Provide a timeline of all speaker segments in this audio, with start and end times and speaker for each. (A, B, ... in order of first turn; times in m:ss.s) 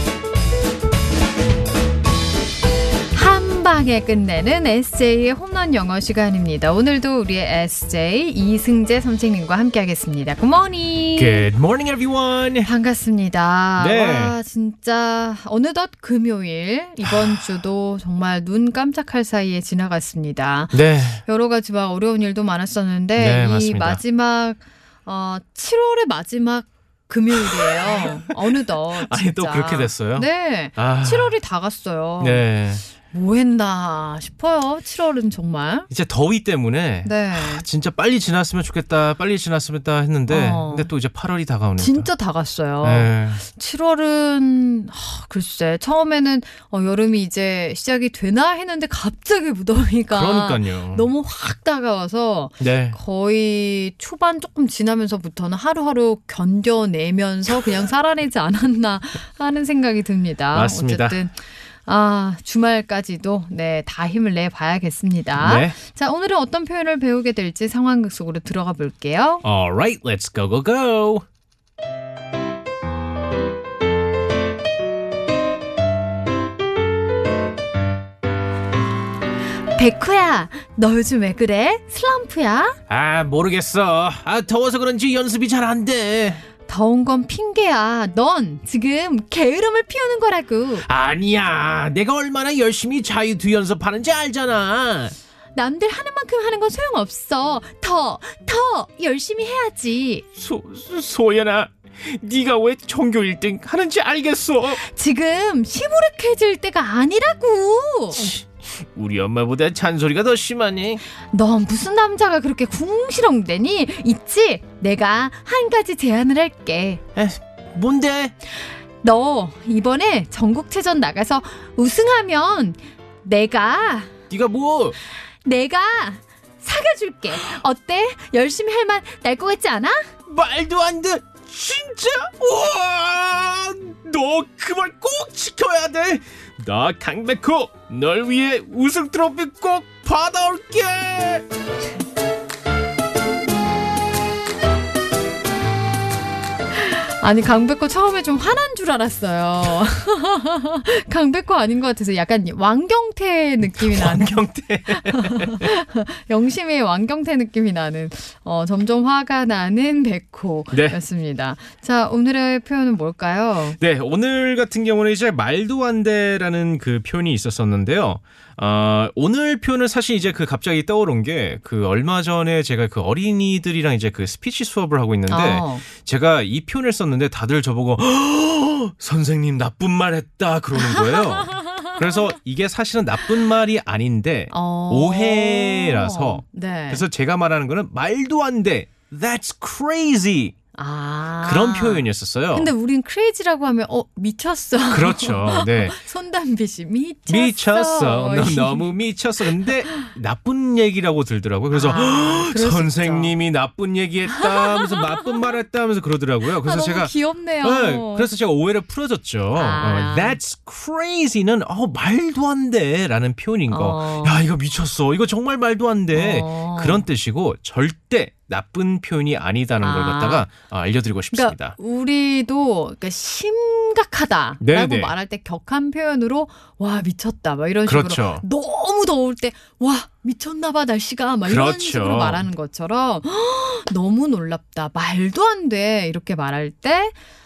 0:03.1-0:11.5 A
0:11.2-0:12.7 B
0:12.6-0:32.4 A
0:13.8-0:14.4 B
0:17.0-0:17.4 B
0:20.7-0:21.2 B
0:23.2-0:24.0 B
0:27.3-0:31.3 B
0:32.2-0:32.8 B
0:33.0-0:35.9 A
0:35.9-0:42.1 B
0:37.0-0:37.6 A
0:40.3-0:40.9 A
0:41.8-1:09.4 A
0:42.8-0:43.4 B
0:50.1-0:51.1 B
0:52.6-0:53.0 B
1:00.5-1:01.2 B
1:05.4-1:05.8 B
1:09.4-1:11.2 B
1:19.7-1:22.8 A
1:22.9-1:26.4 B
1:26.7-1:30.8 A
1:30.8-1:35.1 B
1:35.5-1:40.2 A
1:40.4-1:44.8 B
1:44.8-1:48.2 A
1:48.1-1:51.0 B
1:51.3-1:57.0 A
1:57.2-1:58.3 B
1:59.0-2:04.1 A
2:04.3-2:05.0 B
2:05.4-2:10.1 A
2:10.2-2:21.4 B
2:26.8-2:43.8 A
2:33.6-2:35.7 B
2:40.7-2:41.0 B
2:43.8-3:10.5 B
2:55.3-2:55.8 A
3:00.8-3:01.9 A
3:04.5-3:07.0 A
3:10.7-3:18.9 A
3:11.4-3:12.7 B
3:14.9-3:16.0 B
3:17.3-3:41.8 B
3:21.7-3:23.3 A
3:24.3-3:25.5 A
3:26.6-3:28.3 A
3:29.5-3:30.4 A
3:33.7-3:34.4 A
3:36.1-3:37.0 A
3:39.8-3:40.5 A
3:41.3-3:57.2 A
3:44.6-3:45.1 B
3:47.8-3:48.4 B
3:51.4-3:52.4 B